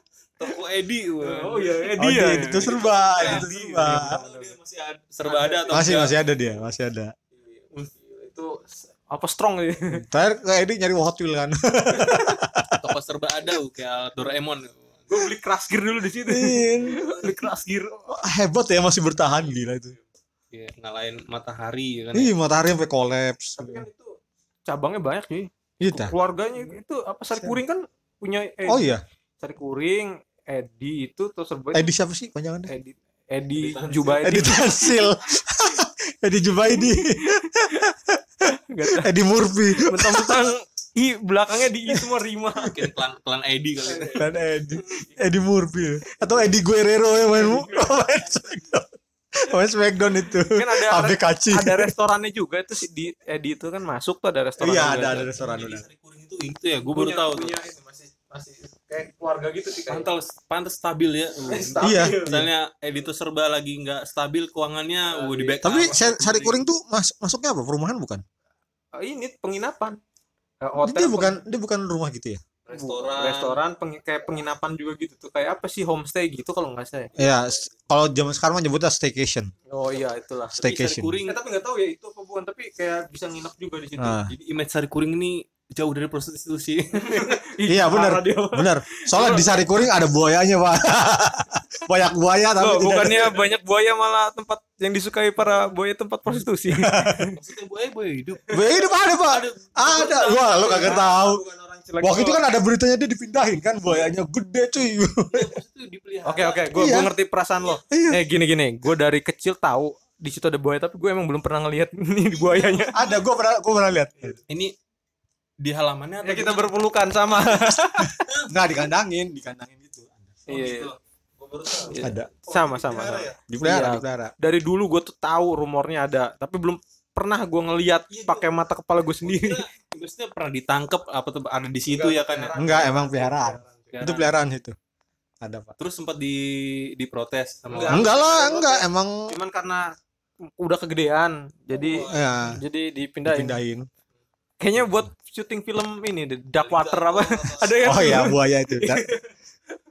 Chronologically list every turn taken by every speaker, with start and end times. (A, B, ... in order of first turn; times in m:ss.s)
0:00.4-0:06.2 A
0:01.2-0:04.6 B
0:02.0-0:04.2 C
0:05.2-0:06.1 B
0:05.7-0:07.1 C
0:07.4-0:10.0 B
0:10.0-0:12.8 C
0:12.0-0:12.4 B
0:12.8-0:15.0 A
0:15.1-0:18.1 B
0:16.3-0:17.4 C
0:18.1-0:20.0 C
0:20.5-0:22.3 A
0:22.1-0:23.9 C
0:23.6-0:24.2 B
0:24.7-0:28.9 B
0:25.8-0:26.1 C
0:28.7-0:29.0 C
0:29.4-0:31.9 B
0:31.7-0:32.7 C
0:32.7-0:35.0 B
0:33.6-0:34.4 A
0:34.2-0:38.2 C
0:36.7-0:37.9 B
0:38.4-0:39.1 B
0:38.9-0:40.5 C
0:39.7-0:42.8 B
0:42.6-0:44.3 A
0:43.8-0:45.1 B
0:44.2-0:51.9 C
0:46.1-0:46.6 B
0:47.3-0:48.0 B
0:50.5-0:55.3 B
0:54.6-0:55.9 C
0:55.1-0:57.5 A
0:56.9-1:00.1 B
0:59.9-1:06.6 A
1:01.4-1:02.4 B
1:01.8-1:02.5 C
1:05.1-1:06.1 B
1:05.6-1:08.2 C
1:09.0-1:10.0 B
1:10.6-1:11.4 B
1:10.8-1:12.4 C
1:12.7-1:13.6 A
1:12.7-1:17.2 B
1:17.2-1:19.5 C
1:19.7-1:20.6 B
1:20.5-1:21.4 A
1:20.5-1:21.2 C
1:21.2-1:24.2 B
1:24.0-1:24.3 C
1:24.3-1:27.4 A
1:26.9-1:29.7 B
1:27.7-1:33.4 C
1:32.6-1:37.4 B
1:36.7-1:37.3 C
1:37.4-1:38.5 A
1:38.5-1:41.4 C
1:39.3-1:41.0 A
1:40.5-1:42.4 B
1:42.0-1:45.6 C
1:45.3-1:46.8 A
1:46.2-1:53.0 B
1:46.7-1:47.1 C
1:47.9-1:48.2 C
1:52.3-1:53.2 A
1:52.9-1:54.4 C
1:54.5-1:54.7 A
1:55.6-1:57.4 A
1:56.2-1:58.2 B
1:58.5-2:00.4 C
2:00.5-2:00.9 B
2:00.5-2:03.4 A
2:01.8-2:09.6 B
2:02.0-2:02.3 C
2:03.5-2:04.3 C
2:08.1-2:08.6 A
2:09.2-2:12.5 A
2:11.9-2:13.9 B
2:12.6-2:14.8 C
2:13.9-2:14.3 A
2:15.4-2:15.7 C
2:15.8-2:18.1 A
2:17.7-2:19.9 B
2:17.9-2:19.3 C
2:20.5-2:23.6 B
2:21.7-2:22.4 A
2:22.1-2:22.6 C
2:23.3-2:23.9 C
2:24.6-2:29.3 B
2:26.6-2:28.3 A
2:27.8-2:29.0 C